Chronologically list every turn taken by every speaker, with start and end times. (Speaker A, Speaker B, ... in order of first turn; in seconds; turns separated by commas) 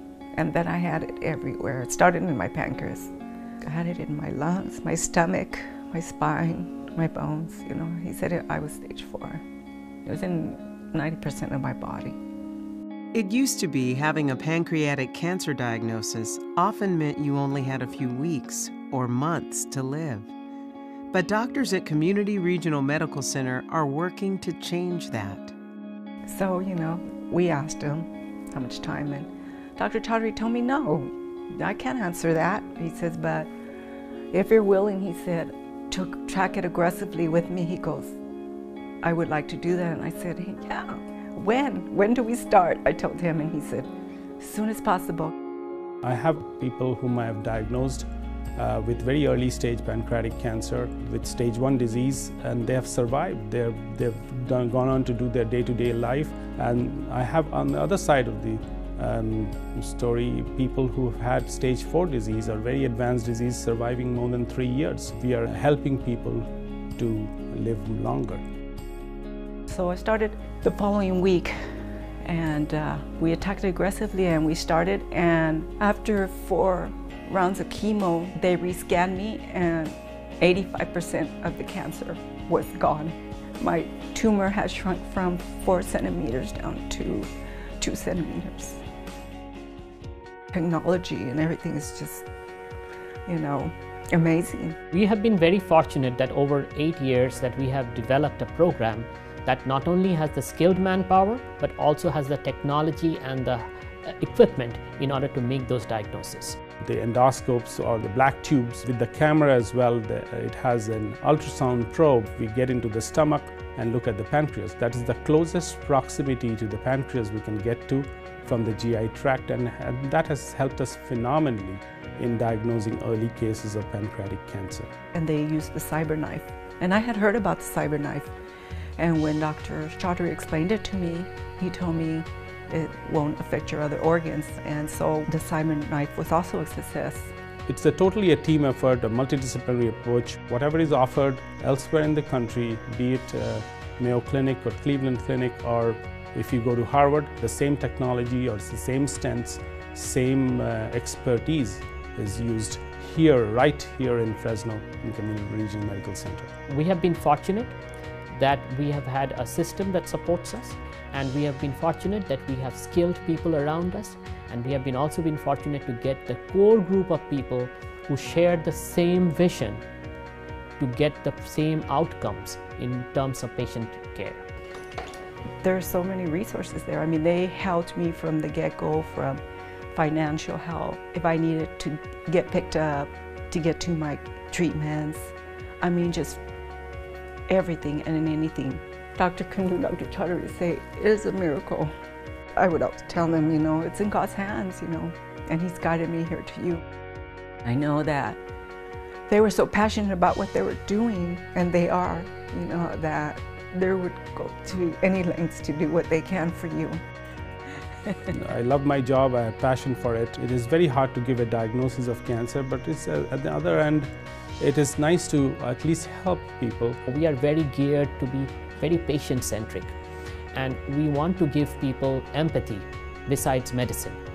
Speaker A: 0.3-3.1, Speaker A: 3.6-9.4, Speaker A: 10.0-12.2, Speaker B: 13.1-20.3, Speaker B: 21.1-25.5, Speaker A: 26.2-33.5, Speaker A: 34.3-38.2, Speaker A: 39.0-45.3, Speaker C: 46.0-68.4, Speaker A: 69.7-71.6, Speaker A: 72.2-87.3, Speaker A: 87.8-88.8, Speaker A: 90.5-92.2, Speaker A: 93.3-94.8, Speaker D: 94.9-106.6, Speaker C: 106.8-124.9, Speaker A: 125.1-128.3, Speaker A: 129.0-137.3, Speaker C: 137.7-156.5, Speaker D: 156.7-157.8, Speaker D: 158.3-169.8, Speaker D: 170.8-174.4, Speaker A: 175.6-186.4, Speaker A: 187.5-191.9, Speaker A: 192.6-196.8, Speaker A: 197.6-198.4, Speaker A: 199.3-207.0, Speaker C: 208.3-217.0, Speaker D: 217.1-219.9, Speaker D: 220.5-224.2